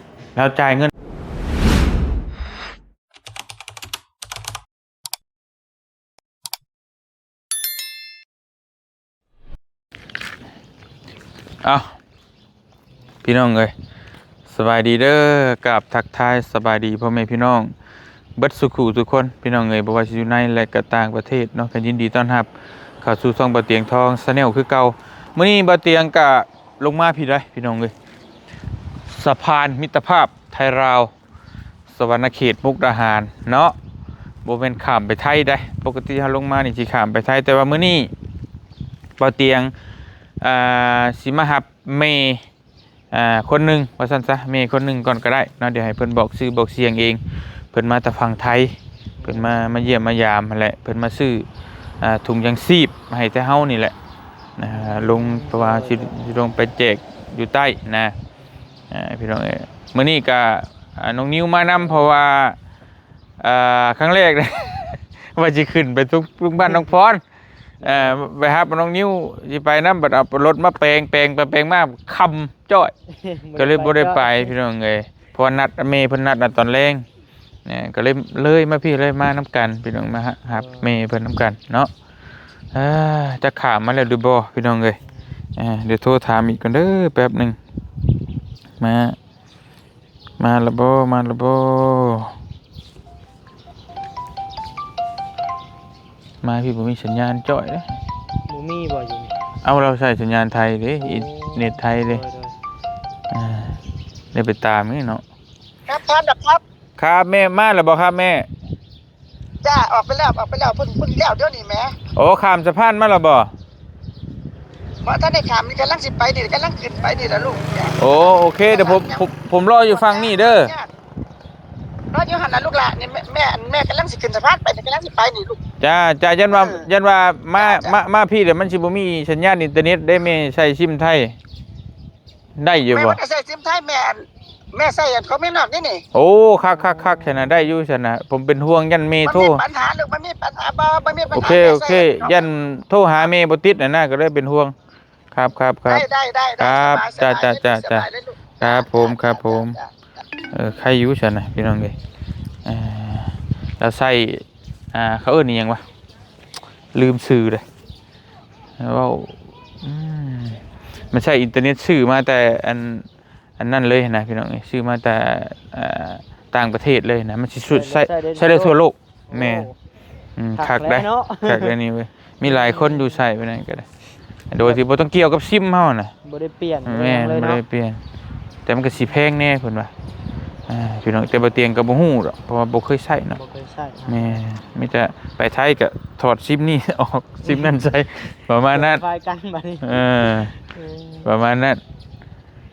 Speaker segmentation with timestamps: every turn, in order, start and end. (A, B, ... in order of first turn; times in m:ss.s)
0:00.4-0:00.9 A
0:11.6-0:12.0 A
0:13.2-0:13.7 A
0:14.5-0:17.7 A
0:18.4-0:22.5 A
0:23.0-0:27.9 A
0:29.1-0:31.1 A
0:31.9-0:33.8 A
0:34.4-0:38.1 A
0:39.2-0:39.7 A
0:40.4-0:42.4 A
0:43.1-0:51.5 A
0:49.2-0:49.7 B
0:52.0-0:54.0 A
0:54.6-0:58.2 A
0:54.7-0:56.2 B
0:58.9-1:02.6 A
1:01.8-1:02.2 B
1:03.4-1:07.2 A
1:07.8-1:08.2 B
1:07.8-1:12.9 A
1:13.1-1:14.6 B
1:13.6-1:17.1 A
1:17.7-1:21.9 A
1:20.5-1:20.9 B
1:22.7-1:25.0 A
1:25.6-1:27.6 A
1:28.8-1:29.2 A
1:30.4-1:32.3 A
1:36.4-1:37.9 A
1:38.5-1:39.4 B
1:39.6-1:42.2 A
1:41.0-1:42.6 B
1:43.3-1:43.8 A
1:44.3-1:45.2 A
1:45.9-1:46.6 C
1:47.0-1:48.5 A
1:49.6-1:52.0 C
1:52.1-1:53.5 A
1:55.0-1:58.0 C
1:58.0-2:00.8 A
1:58.6-1:59.3 C
1:59.9-2:00.9 C
2:02.1-2:05.6 C
2:05.8-2:11.4 A
2:06.5-2:06.8 C
2:07.6-2:08.0 C
2:12.6-2:13.2 A
2:12.9-2:16.0 C
2:16.1-2:19.6 A
2:16.8-2:17.4 B
2:19.2-2:22.5 C
2:21.3-2:24.7 A
2:25.3-2:26.1 A
2:25.9-2:29.8 C
2:26.6-2:29.8 A
2:30.5-2:32.0 A
2:32.7-2:35.8 A
2:36.9-2:37.6 A
2:38.8-2:40.6 A
2:41.1-2:43.1 A
2:43.6-2:49.7 A
2:47.7-2:49.8 B
2:50.4-2:53.9 A
2:50.5-2:51.8 B
2:52.4-2:53.2 B
2:54.5-2:56.1 A
2:54.6-2:54.8 B
2:56.2-2:57.6 B
2:56.8-2:58.0 A
2:58.7-2:59.9 A
3:00.7-3:03.4 A
3:03.3-3:04.6 B
3:04.1-3:09.0 A
3:07.4-3:07.8 B
3:08.7-3:11.3 B
3:09.8-3:10.5 A
3:11.2-3:11.8 A